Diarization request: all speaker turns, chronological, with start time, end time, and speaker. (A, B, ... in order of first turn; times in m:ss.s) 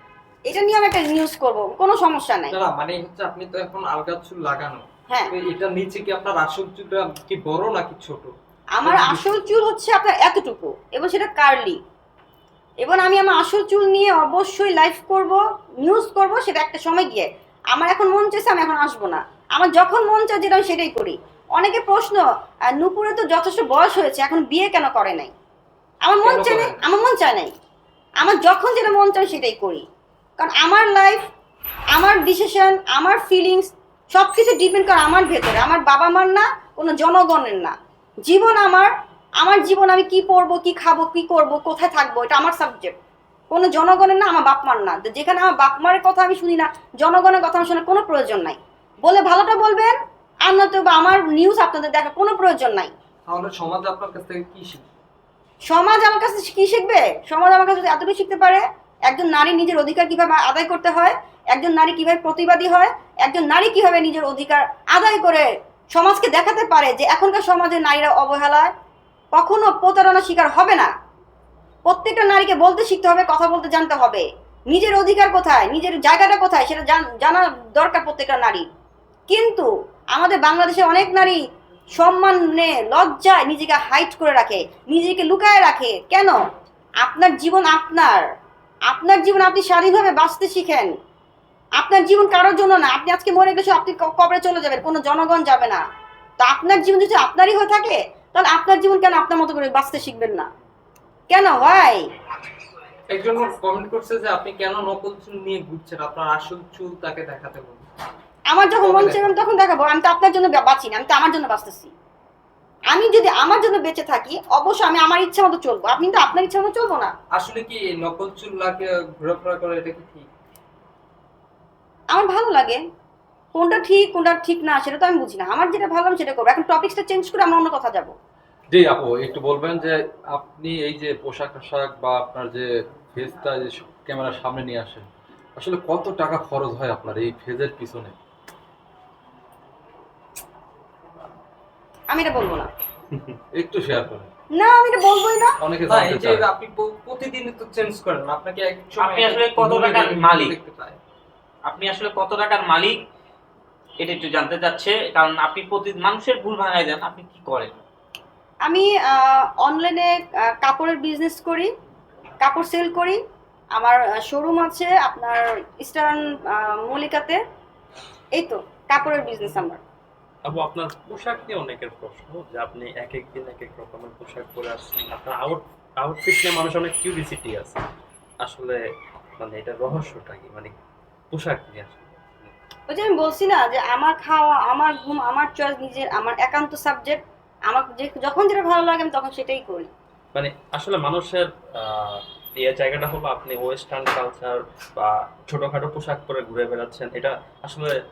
0:00.5-0:02.6 A
0:02.5-0:08.3 B
0:08.7-0:11.8 A
0:08.8-0:09.4 B
0:12.8-0:22.2 A
0:22.7-0:25.3 A
0:26.0-0:27.5 A
0:26.2-0:26.8 B
0:28.2-0:29.8 A
0:30.4-0:31.3 A
0:31.9-0:43.0 A
0:43.5-0:49.9 A
0:50.4-0:52.9 A
0:53.3-0:54.9 B
0:55.7-1:08.7 A
1:09.3-1:10.9 A
1:11.9-1:18.7 A
1:19.3-1:21.4 A
1:22.0-1:26.4 A
1:27.0-1:28.3 A
1:28.9-1:30.9 A
1:31.8-1:35.8 A
1:36.4-1:40.5 A
1:41.3-1:42.0 A
1:43.1-1:47.8 B
1:48.5-1:51.9 A
1:48.8-1:49.3 B
1:52.9-1:57.1 A
1:57.3-2:00.3 B
2:02.1-2:02.8 A
2:03.5-2:08.1 A
2:08.7-2:18.2 C
2:22.1-2:22.7 A
2:23.5-2:24.3 C
2:24.6-2:25.6 A
2:25.6-2:26.5 C
2:25.9-2:31.0 B
2:29.0-2:30.6 D
2:31.6-2:33.0 D
2:34.0-2:37.8 D
2:38.6-2:41.7 A
2:42.4-2:43.2 A
2:43.8-2:47.4 A
2:48.3-2:49.8 A
2:50.5-2:57.8 E
2:58.4-2:58.8 E
2:59.4-3:00.7 E
3:01.3-3:02.5 E
3:02.9-3:09.9 A
3:10.3-3:17.9 E